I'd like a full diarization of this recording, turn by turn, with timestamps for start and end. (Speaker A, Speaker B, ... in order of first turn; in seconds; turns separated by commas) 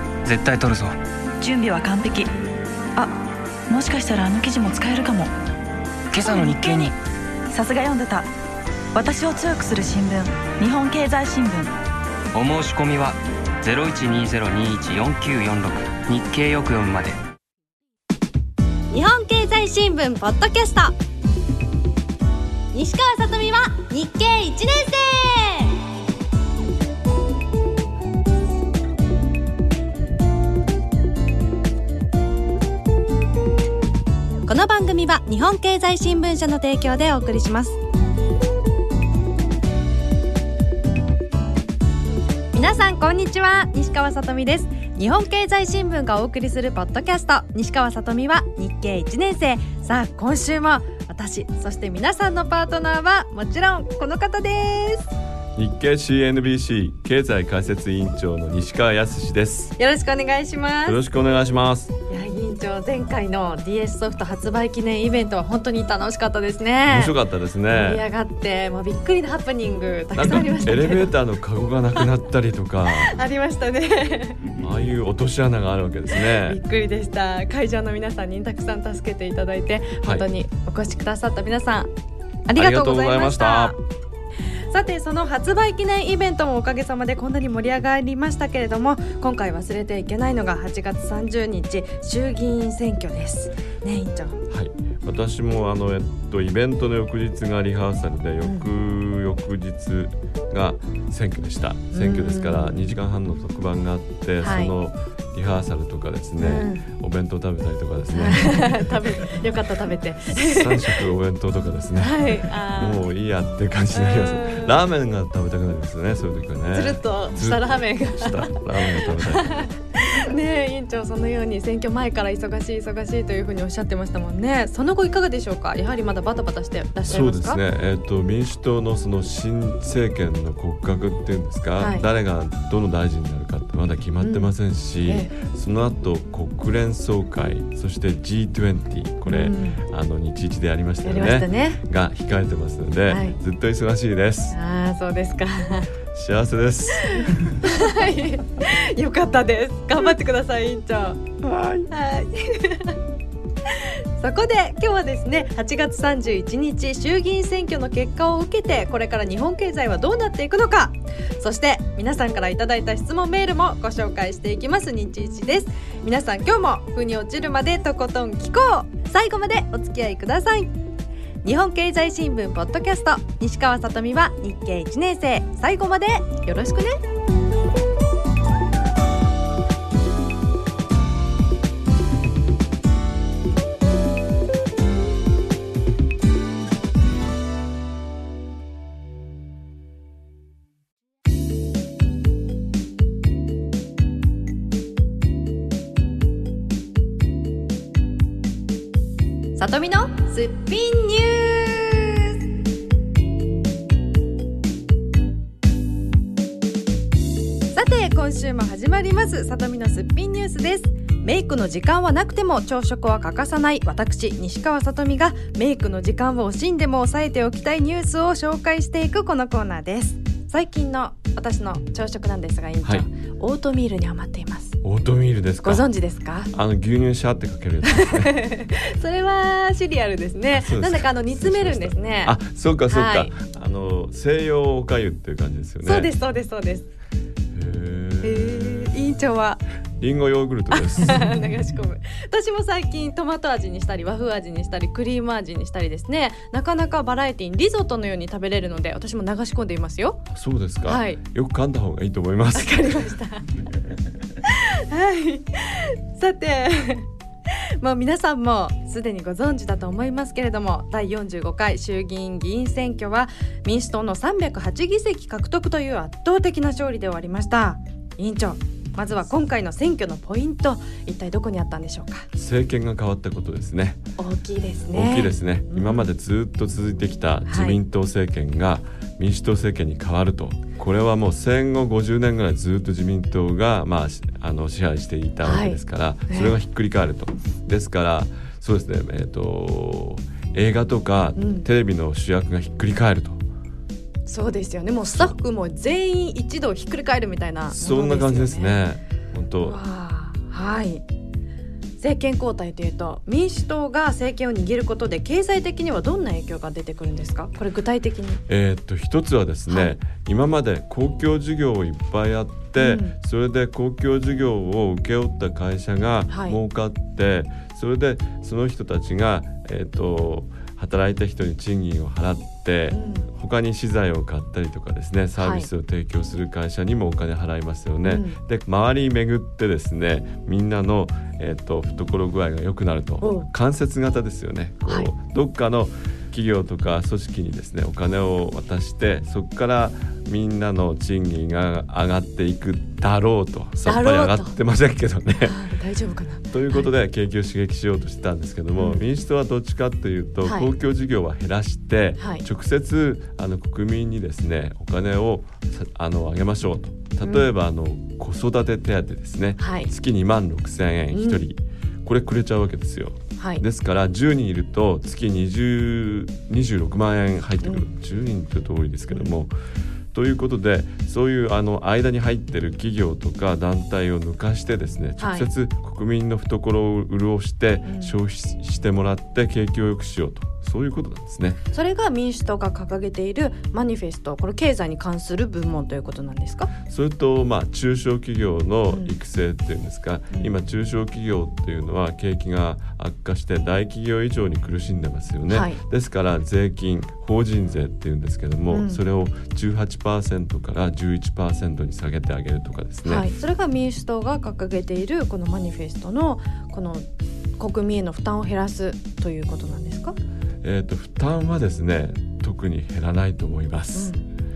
Speaker A: 0.2-1.0, Speaker B: 1.4-2.3, Speaker B: 3.7-5.3, Speaker A: 6.1-7.0, Speaker B: 7.5-8.3, Speaker B: 8.9-11.7, Speaker A: 12.3-17.2, Speaker C: 18.9-21.0, Speaker C: 22.7-25.8, Speaker C: 34.5-37.8, Speaker C: 42.5-55.1, Speaker D: 55.6-59.7, Speaker C: 59.8-61.0, Speaker D: 60.9-61.9, Speaker C: 62.1-67.1, Speaker D: 66.9-68.0, Speaker C: 67.7-71.1, Speaker D: 70.2-73.1, Speaker C: 72.9-74.5, Speaker D: 74.6-76.6, Speaker C: 76.2-81.9, Speaker C: 82.5-83.8, Speaker D: 82.6-83.8, Speaker C: 84.7-94.4, Speaker D: 94.5-108.9, Speaker C: 101.9-102.9, Speaker C: 104.4-104.7, Speaker C: 106.4-106.9, Speaker C: 108.1-111.1, Speaker D: 110.3-119.7, Speaker C: 112.0-113.0, Speaker C: 113.9-114.8, Speaker C: 116.7-127.6, Speaker D: 127.1-144.6, Speaker C: 131.8-132.1, Speaker C: 134.2-134.5, Speaker C: 135.1-135.3, Speaker C: 139.2-139.8, Speaker C: 141.0-141.8, Speaker C: 143.1-143.4, Speaker C: 144.5-145.9, Speaker D: 146.1-147.2, Speaker C: 147.0-151.2, Speaker D: 151.4-151.9, Speaker C: 151.9-153.0, Speaker C: 153.7-170.8, Speaker C: 171.4-177.0, Speaker C: 199.6-202.4, Speaker C: 207.7-224.8, Speaker D: 224.8-225.9, Speaker C: 225.6-226.5, Speaker D: 226.5-228.3, Speaker C: 227.9-232.4, Speaker D: 230.5-236.1, Speaker C: 232.9-233.3, Speaker C: 235.8-236.9, Speaker D: 237.5-239.2, Speaker C: 238.2-239.6, Speaker D: 240.0-241.4, Speaker C: 240.7-250.2, Speaker D: 250.3-253.1, Speaker C: 250.8-251.2, Speaker C: 252.6-253.5, Speaker C: 254.4-257.1, Speaker C: 257.8-272.3, Speaker D: 272.3-274.0, Speaker C: 274.2-276.1, Speaker D: 274.9-293.4, Speaker C: 277.5-277.8, Speaker C: 285.4-286.6, Speaker C: 291.4-291.7, Speaker C: 294.3-298.8, Speaker D: 295.0-295.4, Speaker D: 297.7-299.8, Speaker C: 299.6-301.0, Speaker C: 302.0-308.4, Speaker D: 308.5-345.6, Speaker C: 309.7-310.0, Speaker C: 312.8-313.2, Speaker C: 316.3-316.6, Speaker C: 322.9-323.3, Speaker C: 325.4-325.7, Speaker C: 328.0-328.4, Speaker C: 333.2-333.5, Speaker C: 343.9-344.6, Speaker C: 345.4-346.9, Speaker D: 346.5-369.5, Speaker C: 348.8-349.0, Speaker C: 350.4-350.7, Speaker C: 352.2-352.4, Speaker C: 357.2-357.5, Speaker C: 359.6-359.9, Speaker C: 361.1-361.4, Speaker C: 363.4-363.6, Speaker C: 369.1-369.4, Speaker D: 370.1-381.6, Speaker C: 375.2-375.5, Speaker C: 377.9-378.1, Speaker C: 381.7-386.7, Speaker D: 386.9-403.3, Speaker C: 388.9-389.1, Speaker C: 395.5-395.8, Speaker C: 398.7-399.0, Speaker C: 403.1-407.1, Speaker C: 407.6-410.2, Speaker D: 410.6-414.1, Speaker C: 413.9-414.2